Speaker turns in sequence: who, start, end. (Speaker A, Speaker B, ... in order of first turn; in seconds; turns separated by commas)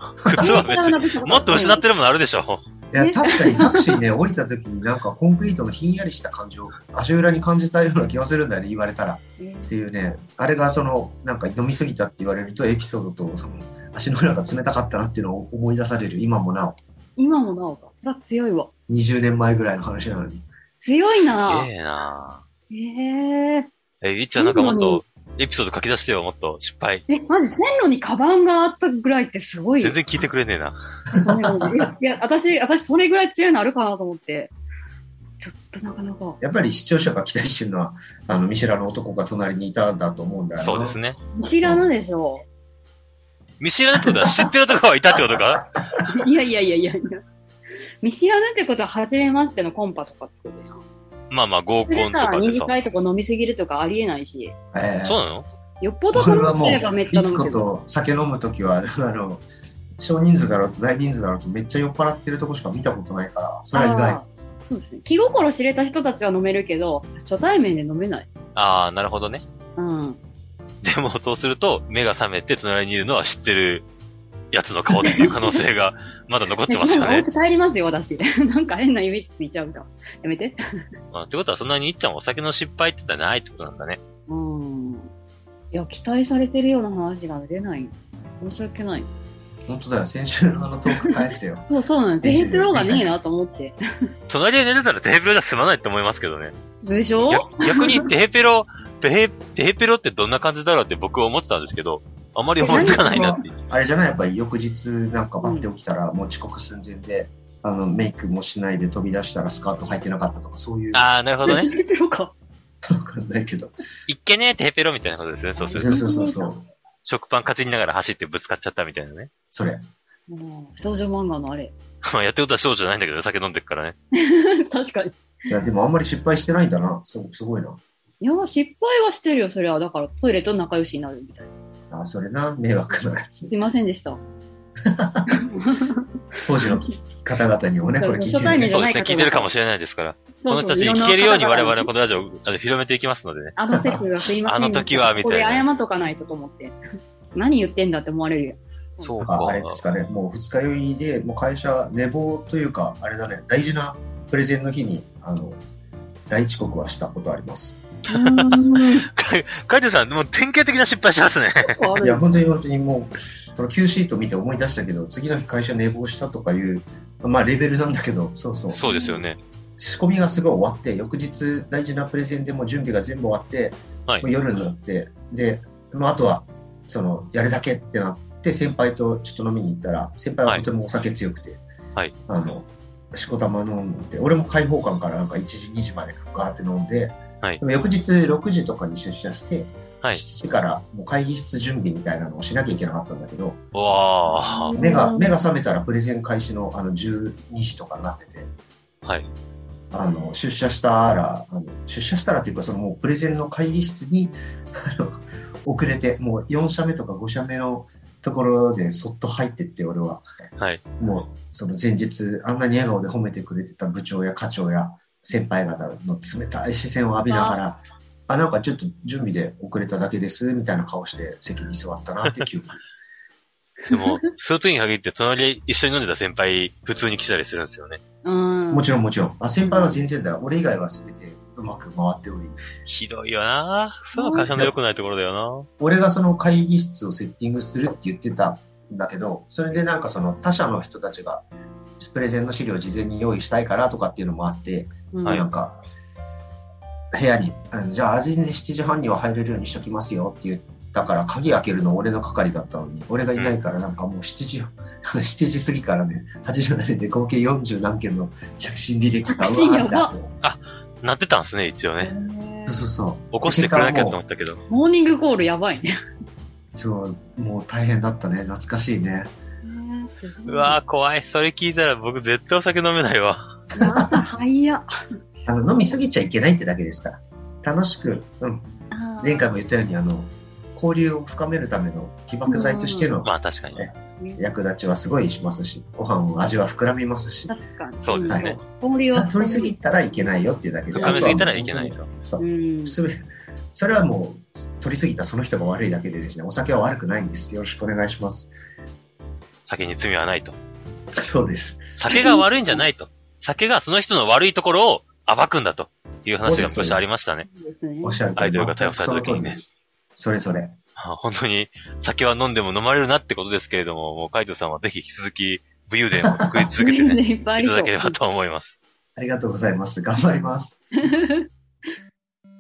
Speaker A: 0.2-2.6, Speaker B: 0.2-0.6, Speaker C: 0.4-1.8, Speaker B: 2.9-16.8, Speaker C: 3.0-3.9, Speaker C: 9.4-9.7, Speaker C: 17.2-18.7, Speaker B: 18.9-20.5, Speaker C: 20.8-21.7, Speaker A: 21.4-22.4, Speaker C: 22.7-23.7, Speaker A: 24.0-27.1, Speaker C: 24.4-25.0, Speaker C: 27.1-30.0, Speaker A: 29.8-30.8, Speaker B: 31.1-31.9, Speaker C: 31.2-34.5, Speaker C: 35.4-36.4, Speaker B: 36.4-41.0, Speaker A: 40.6-41.2, Speaker C: 41.3-42.4, Speaker A: 43.6-45.8, Speaker B: 44.1-44.3, Speaker C: 46.0-47.2, Speaker C: 48.0-50.8, Speaker A: 51.3-52.7, Speaker C: 51.9-54.5, Speaker B: 54.7-55.2, Speaker A: 55.0-55.5, Speaker C: 55.8-57.7, Speaker B: 56.1-59.5, Speaker B: 60.0-64.2, Speaker C: 63.7-68.3, Speaker A: 68.5-69.4, Speaker C: 69.8-70.2, Speaker A: 70.8-73.9, Speaker A: 74.5-77.3, Speaker C: 75.0-75.6, Speaker C: 76.7-80.6, Speaker A: 81.1-84.0, Speaker C: 84.3-85.1, Speaker C: 85.7-89.1, Speaker B: 89.7-91.7, Speaker C: 91.7-93.8, Speaker B: 92.2-93.2, Speaker A: 94.3-96.6, Speaker C: 96.8-98.1, Speaker A: 97.3-103.6, Speaker C: 102.6-103.4, Speaker B: 102.8-111.0, Speaker C: 105.4-105.7, Speaker A: 110.9-111.7, Speaker C: 111.4-112.3, Speaker B: 112.8-113.7, Speaker A: 114.1-115.9, Speaker C: 115.6-116.5, Speaker B: 115.7-116.6, Speaker A: 117.0-119.3, Speaker B: 119.5-119.8, Speaker C: 120.3-121.7, Speaker A: 122.0-124.0, Speaker C: 124.1-125.2, Speaker B: 125.5-127.8, Speaker C: 128.2-131.5, Speaker B: 131.9-133.5, Speaker C: 133.5-134.2, Speaker B: 134.8-135.4, Speaker C: 135.3-136.0, Speaker B: 136.4-138.8, Speaker C: 138.0-139.5, Speaker A: 138.7-143.6, Speaker C: 140.4-141.9, Speaker C: 143.6-146.8, Speaker B: 143.7-144.0, Speaker A: 144.5-145.7, Speaker C: 147.3-149.2, Speaker A: 149.0-149.8, Speaker B: 149.2-155.6, Speaker B: 156.3-157.8, Speaker C: 158.1-159.1, Speaker A: 158.1-161.9, Speaker C: 161.7-162.2, Speaker B: 162.0-168.8, Speaker A: 168.7-169.4, Speaker C: 168.9-169.2, Speaker B: 169.8-181.6, Speaker B: 182.3-193.6, Speaker A: 193.7-194.8, Speaker C: 194.3-195.4, Speaker B: 194.8-198.5, Speaker A: 199.0-199.3, Speaker B: 199.9-210.2, Speaker B: 211.0-222.8, Speaker C: 217.3-217.6, Speaker C: 223.9-224.3, Speaker A: 223.9-228.0, Speaker C: 228.2-228.9, Speaker B: 228.7-232.6, Speaker C: 229.7-229.9, Speaker A: 232.8-235.7, Speaker C: 234.2-234.5, Speaker B: 234.4-234.7, Speaker B: 235.8-241.4, Speaker B: 242.0-245.8, Speaker C: 245.1-245.4, Speaker B: 247.1-260.3, Speaker C: 259.4-260.1, Speaker A: 260.4-262.1, Speaker C: 262.0-262.8, Speaker B: 262.7-264.2, Speaker A: 263.3-264.6, Speaker C: 264.7-265.9, Speaker B: 266.7-269.3, Speaker C: 269.6-270.8, Speaker A: 270.5-273.4, Speaker B: 273.7-274.2, Speaker C: 273.8-274.9, Speaker B: 275.5-278.7, Speaker C: 278.9-279.5, Speaker B: 279.2-287.6, Speaker C: 282.5-283.1, Speaker A: 283.2-283.9, Speaker C: 284.2-284.4, Speaker C: 287.5-289.8, Speaker A: 288.0-288.6, Speaker B: 288.3-298.5, Speaker A: 290.9-292.1, Speaker C: 291.0-291.5, Speaker C: 292.4-293.0, Speaker A: 299.7-300.6, Speaker B: 301.1-301.9, Speaker A: 302.0-307.5, Speaker C: 302.1-302.8, Speaker B: 306.4-307.1, Speaker C: 307.4-308.2, Speaker B: 308.0-310.8, Speaker A: 308.4-309.6, Speaker A: 311.0-318.8, Speaker B: 316.4-316.7, Speaker C: 316.8-318.2, Speaker B: 319.2-320.8, Speaker C: 321.1-321.5